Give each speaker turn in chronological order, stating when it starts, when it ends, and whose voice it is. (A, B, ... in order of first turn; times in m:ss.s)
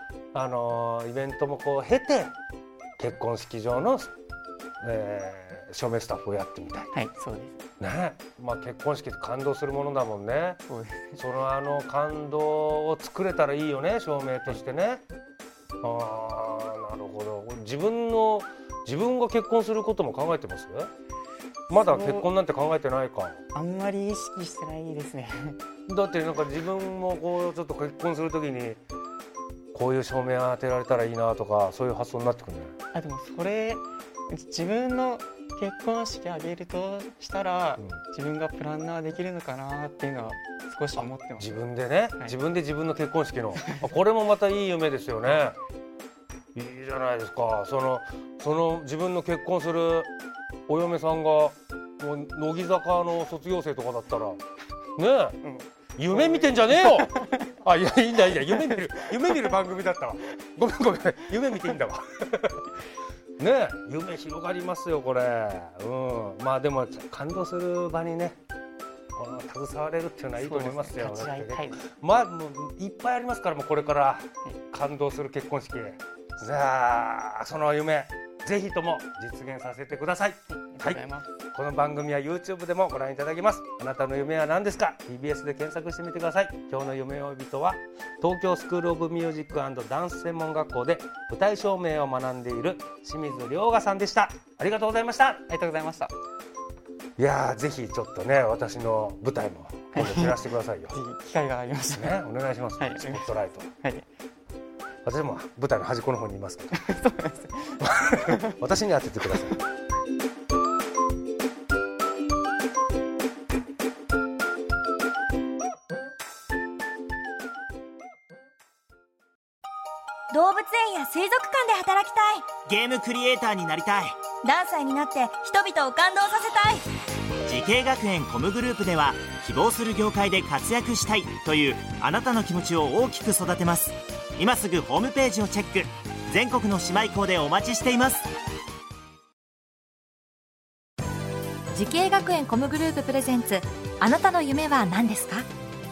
0:00.3-0:02.3 A
0:03.0-0:04.1 A
0:04.8-0:06.9 A
0:06.9-0:07.6 B
0:07.8-0:10.6 A
0:10.7-0:11.2 B
0:11.2-0:15.0 A
0:15.8-0:20.9 A
0:21.7-0:23.4 A
0:21.7-0:22.3 B
0:23.5-0:25.6 B
0:25.9-0:28.8 A
0:29.7-0:32.8 A
0:32.9-0:41.5 B
0:41.0-0:45.6 A
0:43.6-0:43.9 B
0:46.6-0:50.1 A
0:50.7-0:54.4 A
0:55.0-0:55.4 A
0:55.4-0:57.5 B
0:56.0-1:02.7 A
0:58.7-0:59.0 B
1:03.4-1:08.4 A
1:09.2-1:35.4 A
1:10.4-1:11.9 B
1:20.5-1:21.3 B
1:35.5-1:36.1 B
1:37.2-1:41.0 A
1:39.9-1:42.2 B
1:41.9-1:43.7 A
1:42.8-1:44.0 B
1:45.0-1:47.0 A
1:46.7-1:48.5 B
1:47.8-1:49.6 A
2:00.3-2:02.5 C
2:02.7-2:04.2 D
2:04.4-2:06.8 C
2:07.5-2:18.3 D
2:21.7-2:25.5 E